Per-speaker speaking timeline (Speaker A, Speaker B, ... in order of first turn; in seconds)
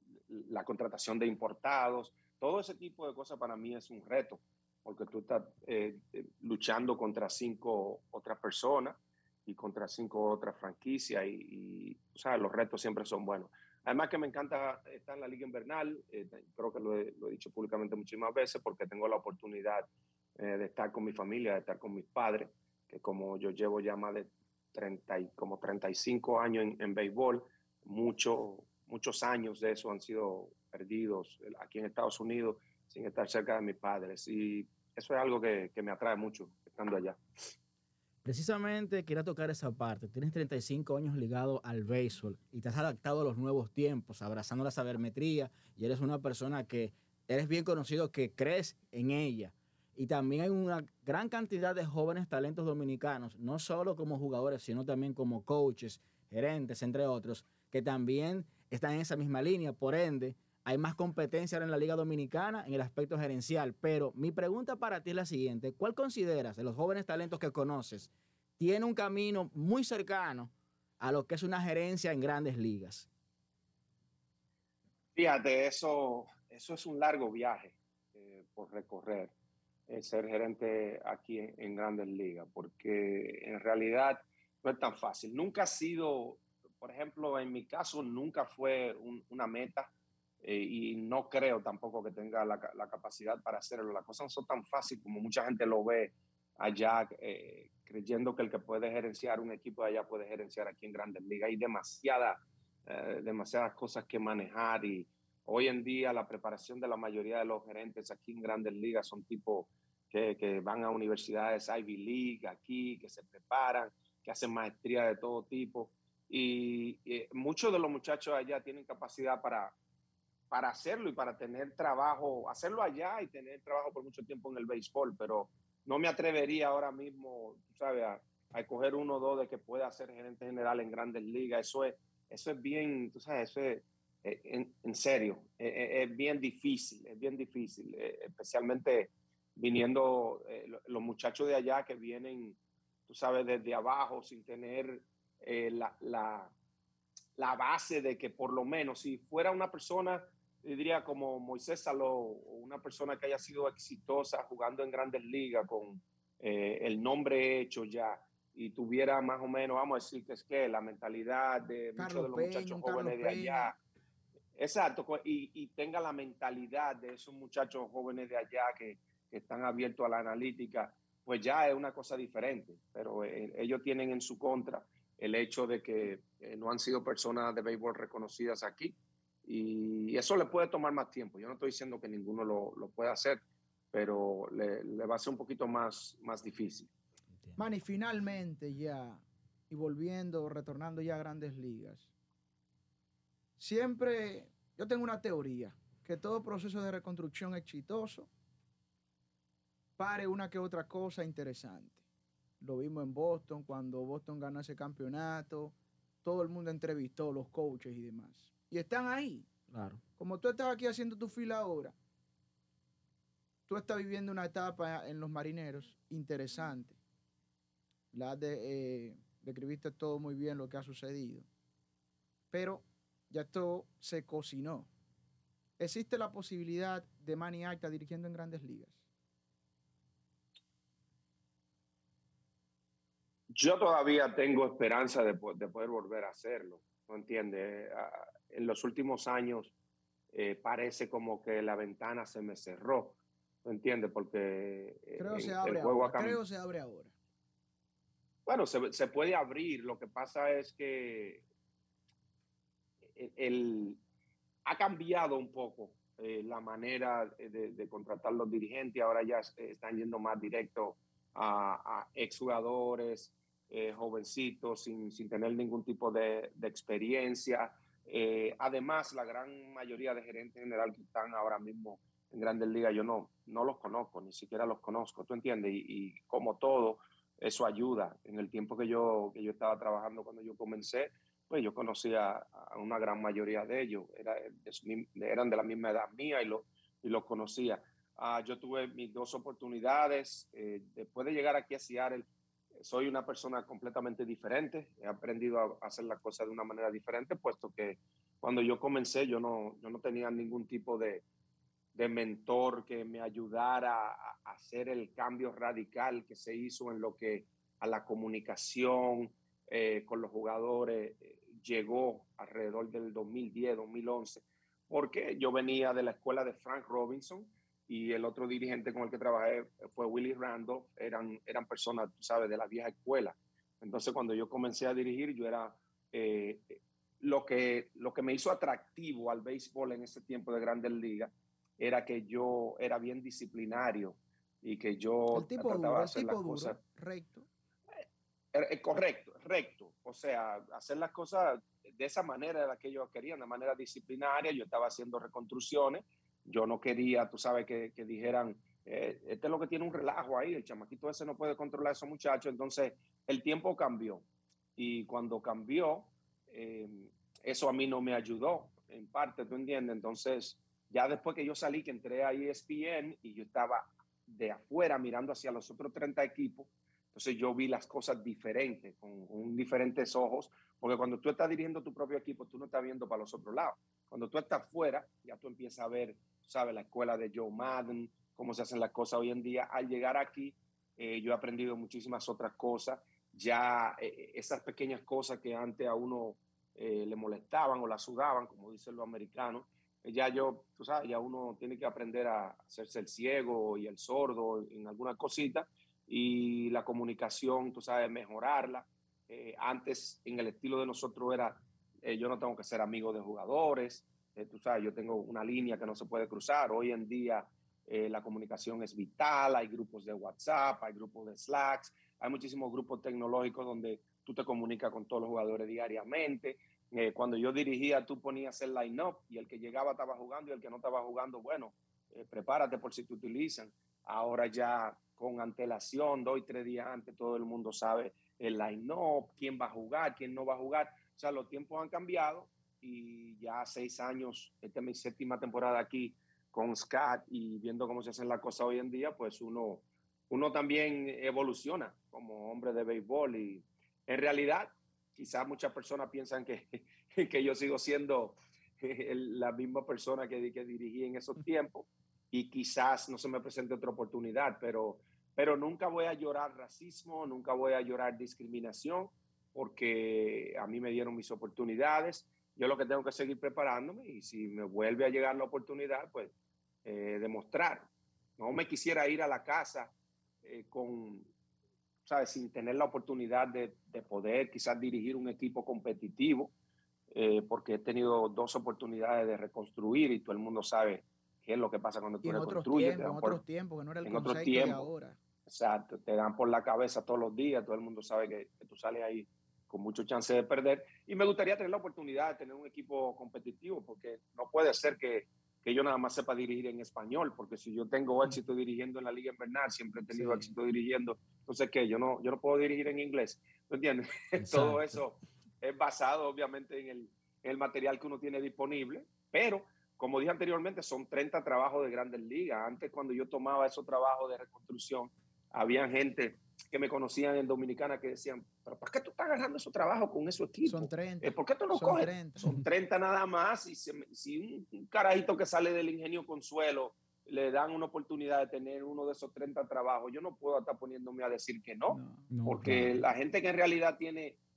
Speaker A: 0.2-37.2, 75.2-79.3, 79.9-89.9, 90.4-119.7, 120.5-146.5, 147.4-163.8, 164.6-186.9, 233.5-239.7, 240.3-246.4, 248.5-251.4, 253.1-254.0, 254.7-292.3, 292.8-301.2, 301.9-336.8, 338.5-354.2, 354.8-466.3, 466.9-471.3, 472.1-476.5, 477.1-483.4, 484.0-484.9, 485.5-534.4
Speaker B: 38.2-73.1, 209.7-210.0, 504.4-505.0, 532.3-533.0
Speaker C: 162.0-163.7, 187.6-192.1, 193.6-198.3, 200.0-202.0, 202.6-209.5, 210.2-211.9, 213.7-217.0, 218.1-221.5, 222.5-224.9, 225.8-229.0, 245.2-247.1, 335.3-337.5, 482.2-485.2, 500.1-500.5, 520.6-522.5, 531.9-532.3